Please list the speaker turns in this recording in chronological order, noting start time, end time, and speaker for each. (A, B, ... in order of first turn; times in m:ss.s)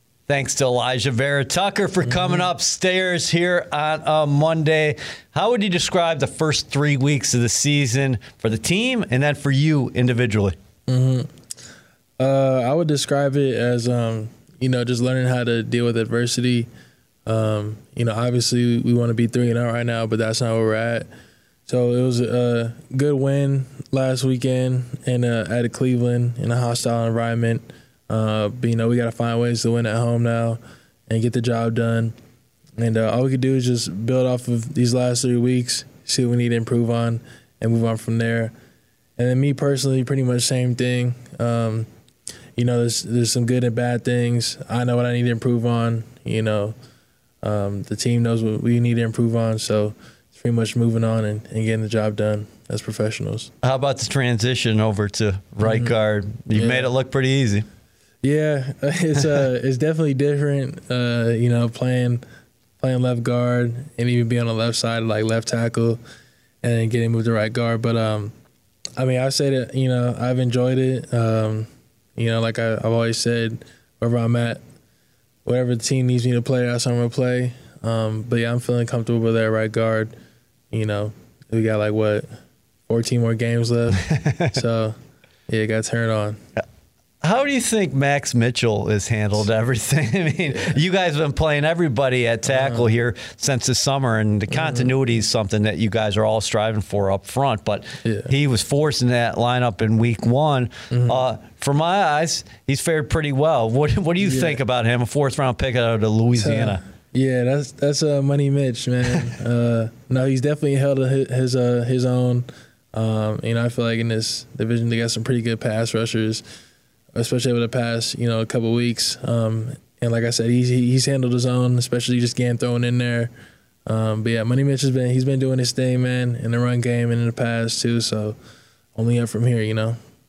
0:00.3-0:10.5 A
0:02.0-0:02.4 B
0:10.9-0:11.3 B
0:12.2-0:16.7 B
0:17.2-0:21.1 B
0:21.7-0:32.1 B
0:32.8-0:38.5 B
0:39.2-0:41.9 B
0:42.6-0:46.8 B
0:47.4-0:53.5 B
0:53.6-0:57.7 A
0:55.6-0:55.9 B
0:56.5-0:56.9 B
0:58.2-1:02.2 B
1:02.8-1:06.0 B
1:06.6-1:08.3 B
1:09.0-1:14.6 B
1:15.4-1:20.1 B
1:20.7-1:22.3 B
1:22.9-1:25.0 B
1:24.1-1:24.5 A
1:25.5-1:26.4 B
1:27.2-1:46.8 A
1:32.5-1:32.8 B
1:34.5-1:34.9 B
1:38.0-1:38.3 B
1:40.9-1:41.2 B
1:44.2-1:44.6 B
1:46.4-1:56.4 B
1:57.1-2:03.3 B
2:03.8-2:08.4 B
2:08.9-2:10.0 B